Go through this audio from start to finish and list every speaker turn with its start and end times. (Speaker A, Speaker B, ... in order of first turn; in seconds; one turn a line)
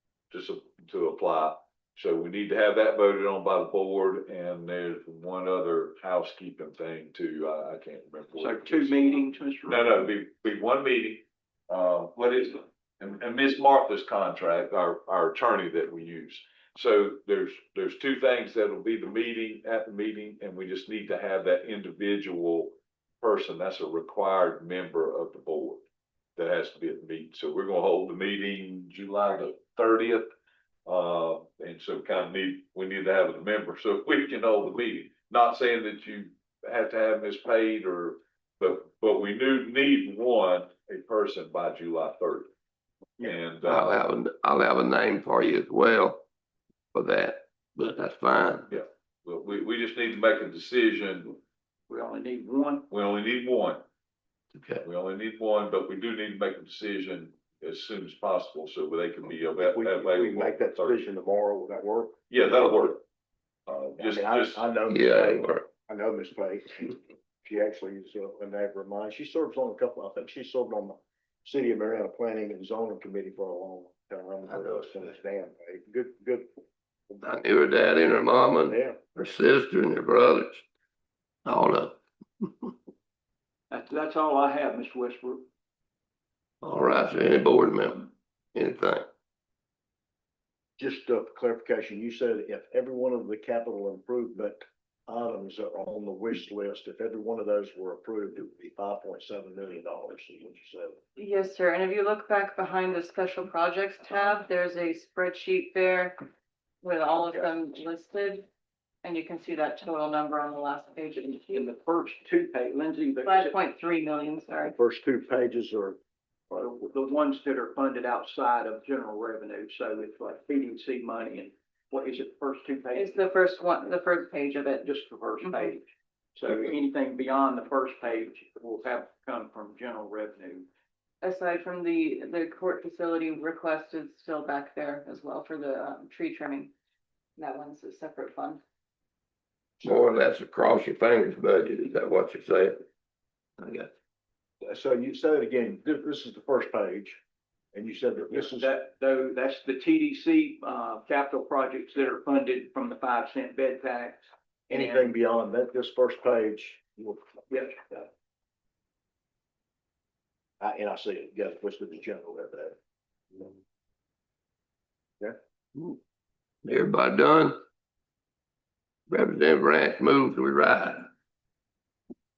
Speaker A: 0.3-9.1
Speaker B: 8.4-10.1
Speaker A: 9.7-25.8
Speaker A: 26.4-30.3
Speaker A: 30.8-42.5
Speaker A: 43.2-44.0
Speaker C: 43.7-46.2
Speaker C: 46.9-48.7
Speaker A: 48.7-51.4
Speaker B: 51.9-52.9
Speaker A: 52.9-53.8
Speaker C: 54.5-54.8
Speaker A: 54.8-61.0
Speaker D: 59.6-62.9
Speaker A: 62.3-63.0
Speaker A: 63.7-64.6
Speaker D: 64.0-76.5
Speaker C: 64.9-65.7
Speaker C: 77.2-80.6
Speaker D: 78.7-79.0
Speaker C: 81.4-82.7
Speaker B: 83.7-85.4
Speaker C: 86.6-89.1
Speaker D: 90.8-101.0
Speaker E: 101.2-106.2
Speaker E: 106.8-108.5
Speaker E: 109.0-111.7
Speaker B: 111.3-113.6
Speaker E: 113.2-114.7
Speaker D: 114.6-116.0
Speaker B: 116.5-123.4
Speaker E: 122.9-125.7
Speaker B: 124.8-130.7
Speaker E: 131.2-136.7
Speaker E: 137.4-138.6
Speaker C: 139.8-142.8
Speaker C: 143.6-143.9
Speaker D: 144.6-147.2
Speaker D: 147.7-148.7
Speaker B: 148.3-155.1
Speaker D: 154.7-157.3
Speaker B: 157.5-158.1
Speaker D: 160.6-162.8
Speaker C: 166.6-167.6
Speaker C: 169.1-171.1